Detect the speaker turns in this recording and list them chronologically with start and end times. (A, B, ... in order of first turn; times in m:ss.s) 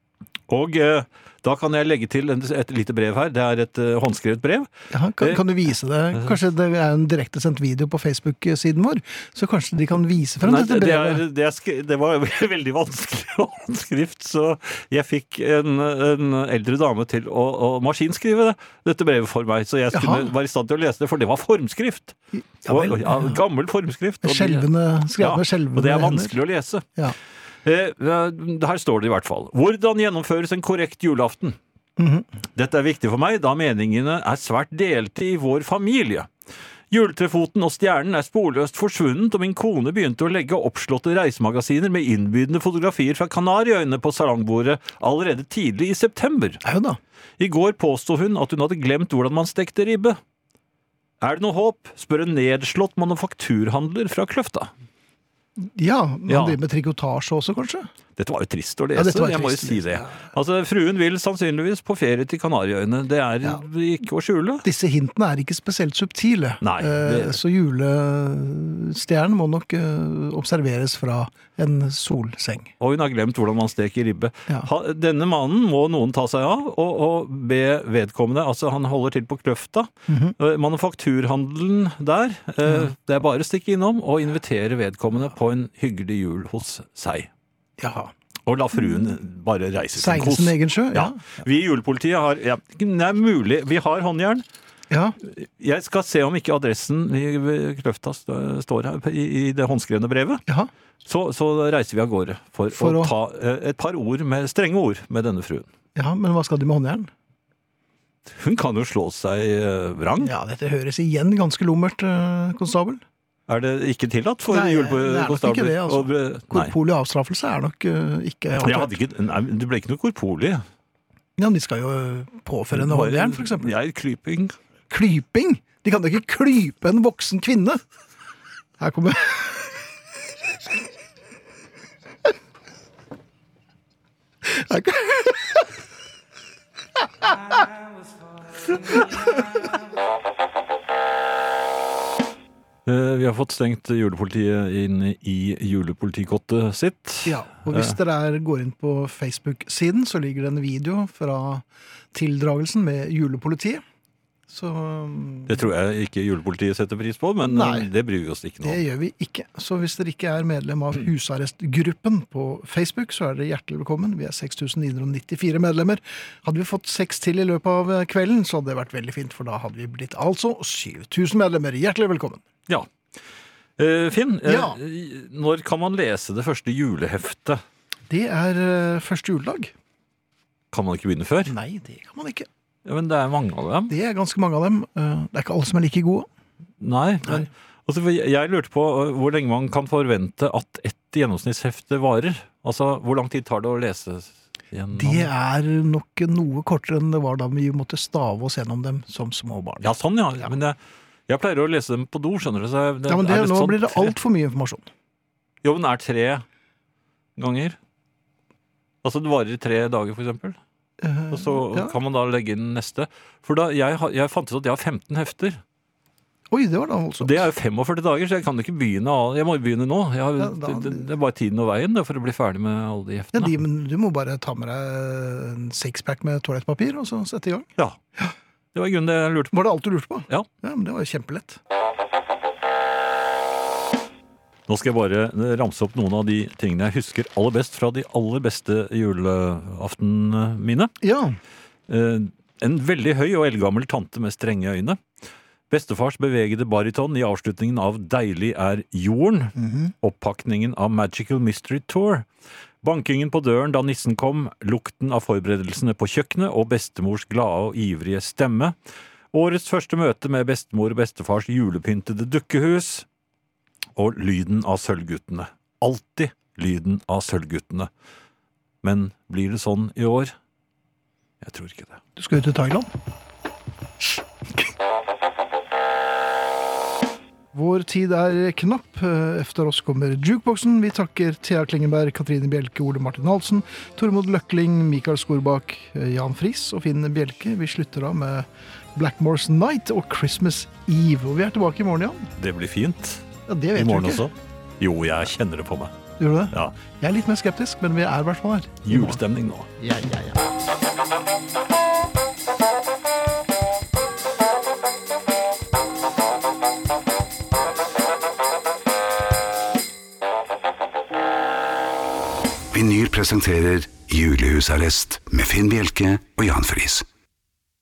0:00.5-0:05.4 A
0:04.9-0:11.2 B
0:10.4-0:22.2 A
0:19.9-0:20.3 B
0:22.4-0:23.4 B
0:22.7-0:24.7 A
0:24.2-0:26.4 B
0:25.2-0:26.8 A
0:27.6-0:31.6 A
0:32.0-0:32.3 B
0:32.6-0:36.3 A
0:36.9-0:46.6 A
0:46.6-0:47.0 B
0:47.4-0:50.2 A
0:51.2-0:54.7 A
0:55.6-0:57.9 B
0:56.3-0:56.6 A
0:58.2-1:04.6 A
0:59.0-1:00.3 B
1:04.6-1:12.7 B
1:06.6-1:07.4 A
1:12.8-1:27.3 A
1:20.1-1:20.4 B
1:22.6-1:22.9 B
1:27.8-1:28.1 B
1:28.5-1:34.4 A
1:30.0-1:31.2 B
1:34.9-1:35.2 B
1:35.3-1:40.4 A
1:41.1-1:45.7 A
1:42.7-1:43.2 B
1:46.0-1:47.1 B
1:48.3-1:50.3 A
1:50.2-1:53.0 B
1:53.5-1:56.7 A
1:54.5-1:58.9 B
1:58.6-2:00.6 A
2:01.4-2:03.7 B
2:02.7-2:04.6 A
2:04.9-2:07.8 B
2:08.8-2:09.9 B
2:14.4-2:15.7 B
2:22.9-2:28.0 A
2:27.2-2:33.8 B
2:34.5-2:35.6 B
2:35.5-2:38.8 A
2:37.4-2:37.9 B
2:38.6-2:52.4 B
2:53.8-2:57.6 A
2:54.4-2:54.8 B
2:58.1-2:59.7 B
3:00.7-3:01.5 A
3:01.5-3:02.5 B
3:02.8-3:03.9 A
3:03.9-3:06.3 B
3:06.8-3:15.3 A
3:15.0-3:19.9 B
3:19.8-3:20.8 A
3:21.3-3:24.1 A
3:23.1-3:24.9 B
3:25.6-3:26.4 A
3:27.4-3:27.8 A
3:29.0-3:30.6 A
3:31.0-3:32.0 B
3:31.3-3:35.6 A
3:36.5-3:37.5 B
3:37.2-3:43.6 A
3:40.4-3:41.0 B
3:43.3-3:48.3 B
3:48.8-3:49.6 A
3:49.5-3:51.6 B
3:54.7-4:00.9 A
4:01.0-4:01.4 B
4:01.9-4:05.0 A
4:05.7-4:12.3 A
4:09.6-4:09.9 B
4:12.8-4:18.8 A
4:19.3-4:23.1 A
4:24.0-4:27.9 A
4:28.8-4:30.3 A
4:31.4-4:32.0 A
4:32.2-4:32.9 B
4:37.5-4:52.3 B
4:52.4-4:53.2 A
4:53.5-4:54.3 B
4:53.8-4:55.9 A
4:56.2-4:59.2 B
4:58.8-4:59.7 A
4:59.8-5:00.4 B
5:12.7-5:17.1 C